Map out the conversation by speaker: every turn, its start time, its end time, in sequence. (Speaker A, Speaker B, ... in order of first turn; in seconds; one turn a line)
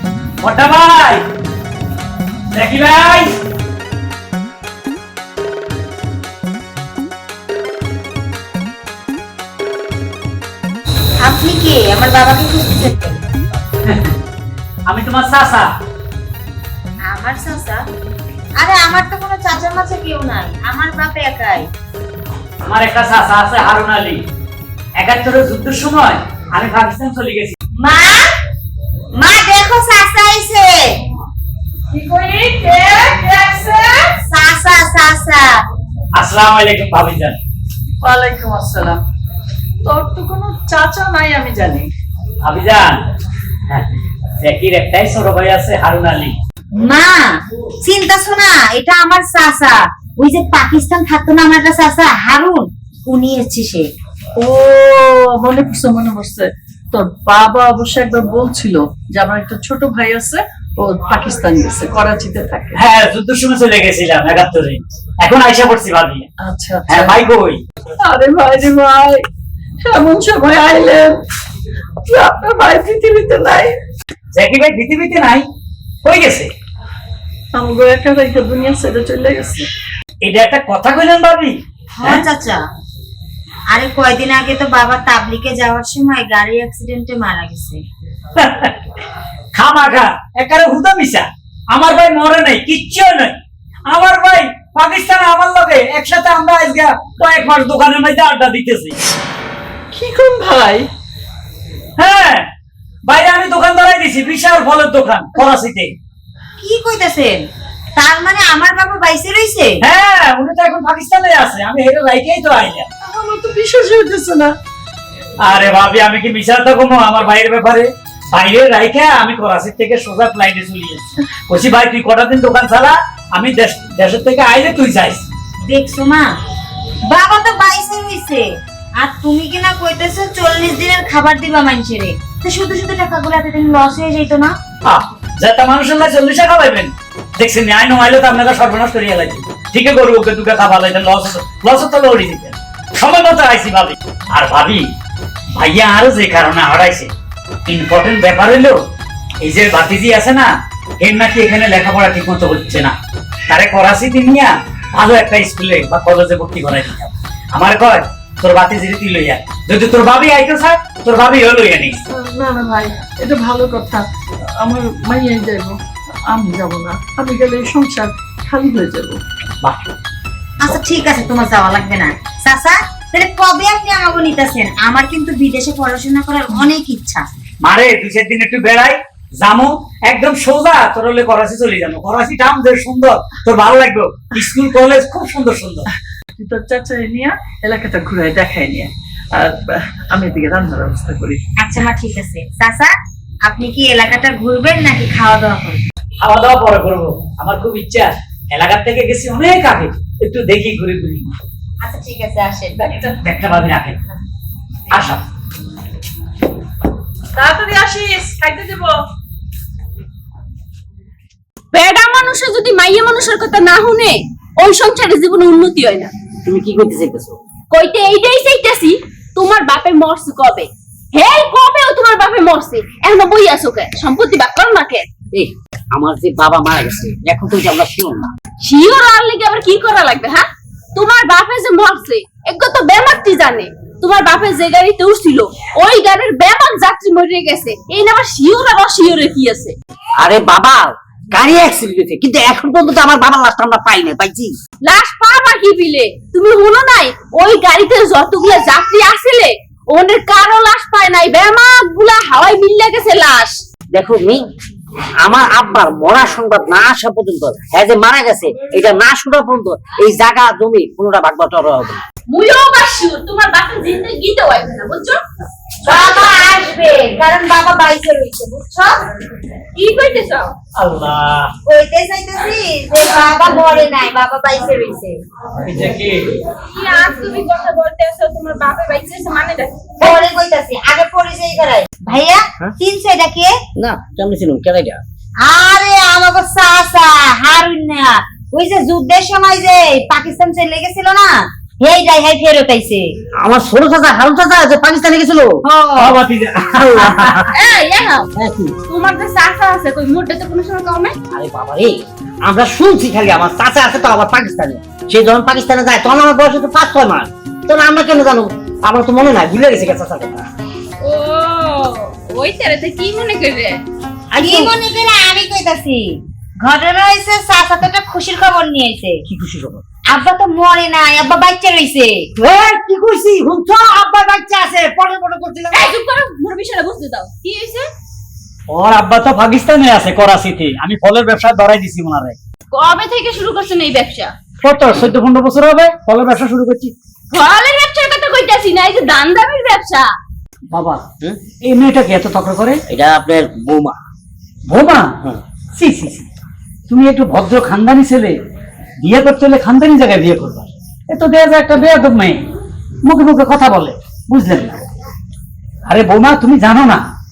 Speaker A: 0.4-1.2
Speaker A: 2.5-3.3
Speaker B: 11.2-13.4
Speaker A: 13.9-14.1
Speaker A: 14.9-15.7
Speaker B: 17.1-17.8
Speaker B: 18.6-21.7
Speaker A: 22.7-24.2
Speaker A: 25.0-27.6
Speaker B: 27.8-28.3
Speaker B: 29.2-31.0
Speaker C: 31.9-34.1
Speaker B: 34.1-35.6
Speaker A: 36.1-37.4
Speaker C: 38.0-39.0
Speaker C: 39.8-41.9
Speaker A: 42.4-43.0
Speaker A: 44.4-46.4
Speaker B: 46.8-53.9
Speaker C: 54.4-62.8
Speaker A: 62.7-66.3
Speaker C: 66.4-67.2
Speaker A: 66.9-67.6
Speaker C: 68.0-69.2
Speaker C: 69.8-71.2
Speaker C: 72.0-73.8
Speaker A: 74.3-75.5
Speaker A: 76.0-76.5
Speaker C: 77.5-79.7
Speaker A: 80.2-82.2
Speaker B: 82.0-82.6
Speaker B: 83.7-87.8
Speaker A: 88.4-88.8
Speaker A: 89.5-93.4
Speaker A: 93.9-99.0
Speaker C: 99.9-100.9
Speaker A: 102.0-102.5
Speaker A: 103.1-105.9
Speaker B: 106.6-107.5
Speaker B: 108.0-109.8
Speaker A: 109.8-112.9
Speaker C: 113.0-114.5
Speaker A: 115.4-125.2
Speaker B: 125.7-126.3
Speaker B: 127.1-134.5
Speaker A: 134.8-144.9
Speaker A: 145.5-147.1
Speaker A: 147.7-148.8
Speaker A: 149.4-152.9
Speaker A: 153.5-162.0
Speaker C: 162.1-169.2
Speaker A: 169.6-169.9
Speaker B: 170.6-177.4
Speaker A: 177.6-185.9
Speaker C: 186.4-191.4
Speaker B: 191.6-192.9
Speaker B: 193.5-195.8
Speaker A: 196.2-201.3
Speaker B: 201.8-202.8
Speaker A: 203.2-204.0
Speaker A: 204.9-205.2
Speaker C: 207.3-209.0
Speaker D: 211.7-216.1
Speaker E: 216.4-217.4
Speaker D: 217.7-225.1
Speaker E: 225.3-228.3
Speaker D: 228.6-239.8
Speaker E: 240.2-244.6
Speaker D: 244.8-253.6
Speaker E: 253.9-254.5
Speaker E: 255.2-262.0
Speaker D: 262.3-265.2
Speaker B: 265.8-269.0
Speaker D: 269.8-270.5
Speaker A: 270.8-271.5
Speaker B: 271.7-275.2
Speaker A: 275.6-276.3
Speaker D: 276.8-279.8
Speaker B: 280.0-283.5
Speaker E: 283.8-285.0
Speaker B: 285.4-293.1
Speaker E: 293.4-296.2
Speaker A: 296.0-297.5
Speaker E: 296.8-297.5
Speaker D: 297.5-298.3
Speaker E: 298.4-298.8
Speaker D: 298.9-301.2
Speaker E: 301.3-310.5
Speaker D: 311.0-313.8
Speaker B: 314.3-319.2
Speaker E: 314.4-314.7
Speaker E: 319.3-319.8
Speaker B: 320.1-322.3
Speaker E: 322.4-325.9
Speaker D: 325.7-327.9
Speaker A: 328.7-332.4
Speaker D: 332.7-334.3
Speaker A: 334.6-336.9
Speaker D: 337.3-340.1
Speaker A: 340.7-341.0
Speaker A: 341.6-342.8
Speaker E: 342.9-344.0
Speaker A: 344.7-345.1
Speaker A: 345.8-346.3
Speaker A: 346.9-348.4
Speaker A: 349.0-352.5
Speaker A: 353.1-354.8
Speaker A: 355.9-357.0